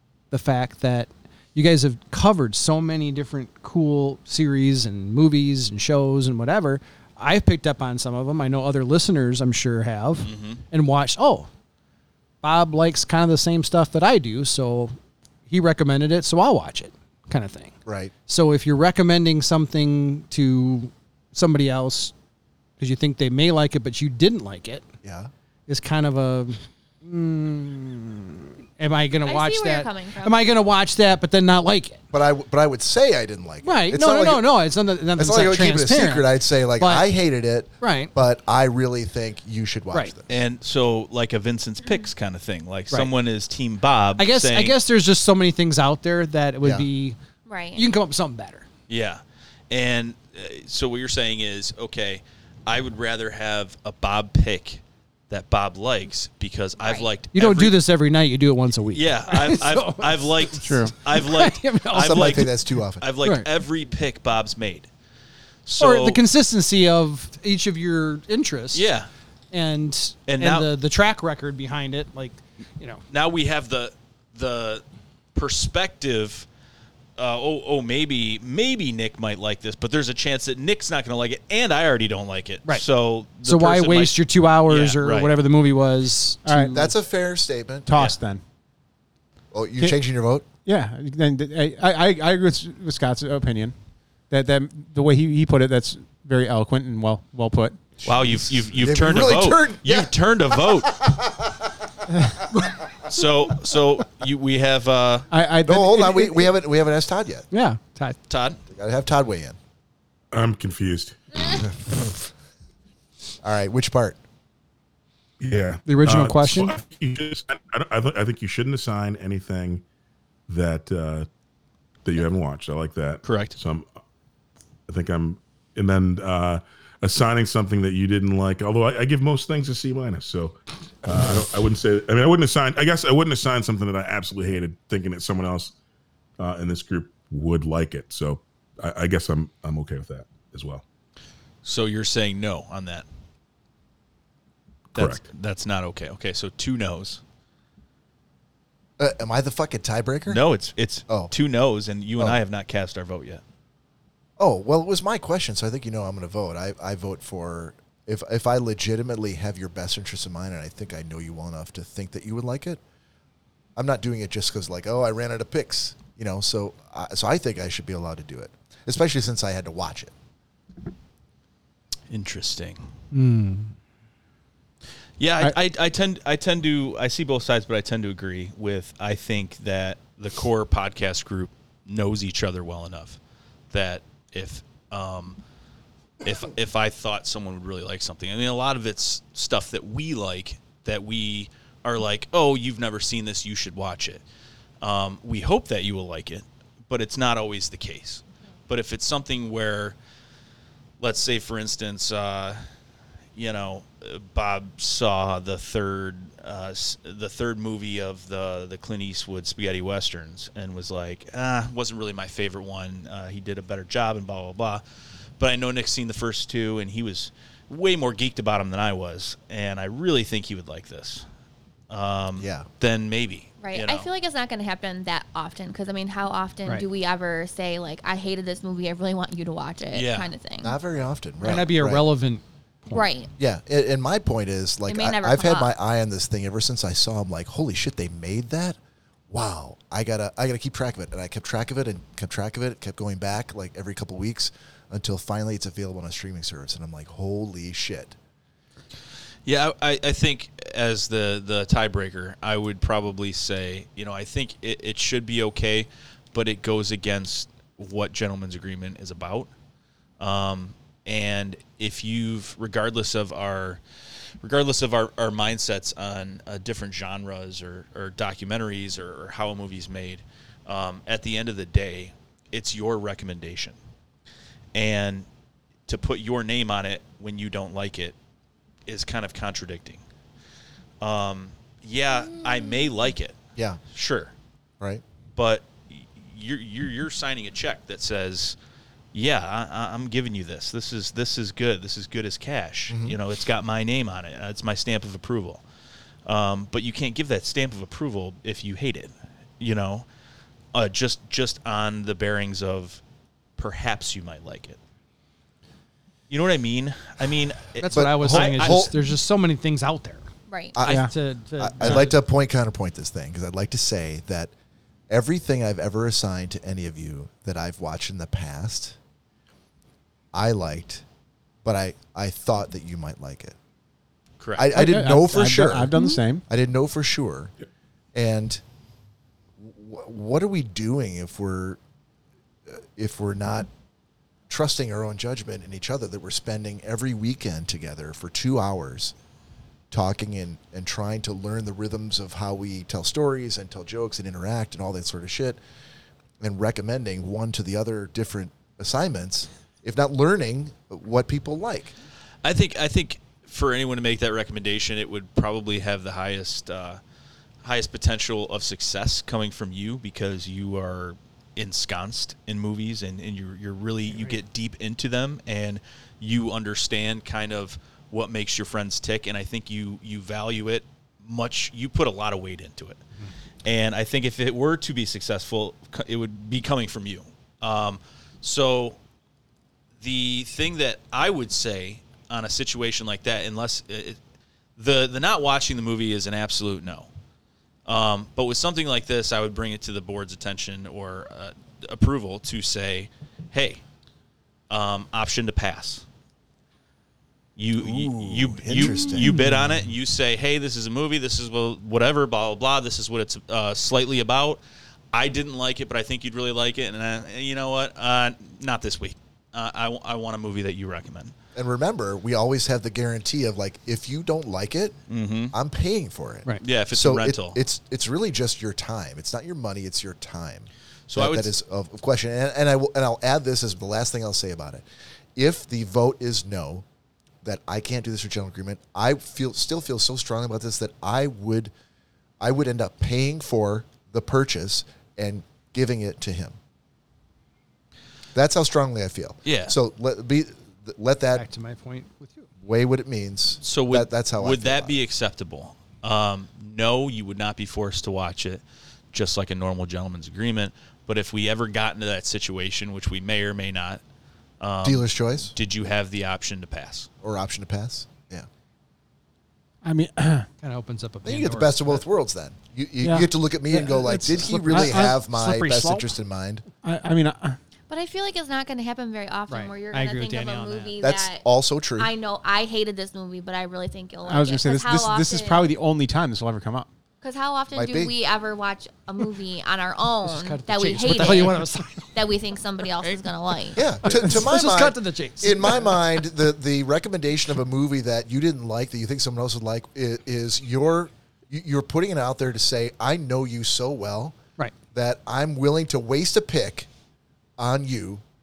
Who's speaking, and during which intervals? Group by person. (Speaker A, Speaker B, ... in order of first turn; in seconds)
Speaker A: 0.3-11.5, 12.4-14.9, 15.5-17.7, 18.3-22.1, 22.8-24.9, 25.7-32.0, 33.6-37.1, 37.8-38.1, 44.2-47.2, 47.7-48.6, 57.3-62.5, 63.2-63.5, 65.8-68.9, 69.5-73.0, 83.4-86.9, 107.5-108.2, 115.8-116.8, 173.1-173.7, 231.4-233.0, 307.8-310.2, 310.9-312.1, 399.3-399.6, 441.3-442.5, 460.6-462.0, 464.4-465.3, 469.5-470.9, 480.2-482.1, 483.0-486.1
Speaker B: 10.2-10.6, 40.3-44.8, 48.9-57.8, 58.9-64.9, 65.7-66.2, 68.7-69.1, 70.3-70.7, 73.1-74.8, 75.3-76.5, 77.2-85.3, 98.0-101.1, 103.1-105.3, 108.3-108.6, 123.2-123.6, 141.6-143.0, 144.9-147.2, 150.3-153.4, 172.1-172.9, 175.2-183.2, 183.7-185.4, 186.2-194.2, 194.8-199.9, 201.0-202.6, 203.3-214.8, 215.4-221.2, 221.9-224.1, 229.9-230.3, 249.4-259.5, 260.2-263.8, 264.4-273.8, 274.7-275.3, 275.9-278.1, 278.9-280.0, 281.0-283.4, 283.9-284.3, 285.3-288.6, 289.1-295.6, 296.2-300.1, 300.7-303.0, 303.6-304.8, 306.3-308.9, 324.4-324.6, 352.4-357.0, 357.6-373.0, 373.6-379.0, 380.0-384.2, 384.8-387.1, 387.9-393.8, 394.7-396.0, 397.6-404.6, 405.1-411.3, 415.1-415.5, 416.6-417.6, 421.1-421.5, 439.4-439.8, 443.6-448.6, 449.1-454.0, 454.6-457.1
Speaker C: 17.9-18.1, 25.0-25.3, 32.1-34.5, 35.1-40.3, 46.6-46.9, 61.9-63.1, 86.7-88.0, 89.5-90.5, 98.1-101.7, 105.7-107.5, 108.7-109.6, 111.6-112.3, 113.4-114.2, 149.0-150.4, 154.4-162.8, 163.8-170.1, 222.4-222.7, 230.6-232.1, 233.4-238.8, 239.3-248.2, 292.9-293.1, 307.9-308.9, 310.8-314.5, 315.1-319.0, 320.3-321.0, 321.6-323.6, 324.6-325.9, 326.5-327.5, 328.1-328.6, 329.6-331.8, 332.7-333.7, 334.5-339.1, 339.9-345.6, 346.4-351.9, 397.8-399.3, 411.5-415.0, 415.5-424.8, 425.4-426.8, 427.4-431.7, 432.4-436.6, 438.3-441.4, 442.6-445.0, 454.8-455.5, 457.2-458.5, 461.2-466.6, 471.0-472.1, 477.7-478.1, 483.8-494.4, 494.9-496.9, 497.6-498.2
Speaker D: 29.2-30.4, 47.5-47.8, 56.8-57.1, 223.6-230.8, 232.9-233.3, 234.9-235.7, 310.5-310.8, 467.9-471.4, 472.0-475.6, 477.2-483.8
Speaker E: 60.6-60.9, 86.4-86.8, 87.9-88.4, 90.6-93.7, 94.3-97.9, 105.3-106.5, 310.8-311.1, 324.7-326.4, 399.3-399.8, 459.8-460.5, 463.0-466.0, 466.8-467.6, 474.2-476.9
Speaker F: 110.3-111.2, 115.4-119.8, 120.5-121.3, 122.0-123.9, 124.9-135.7, 136.4-140.8, 144.9-145.2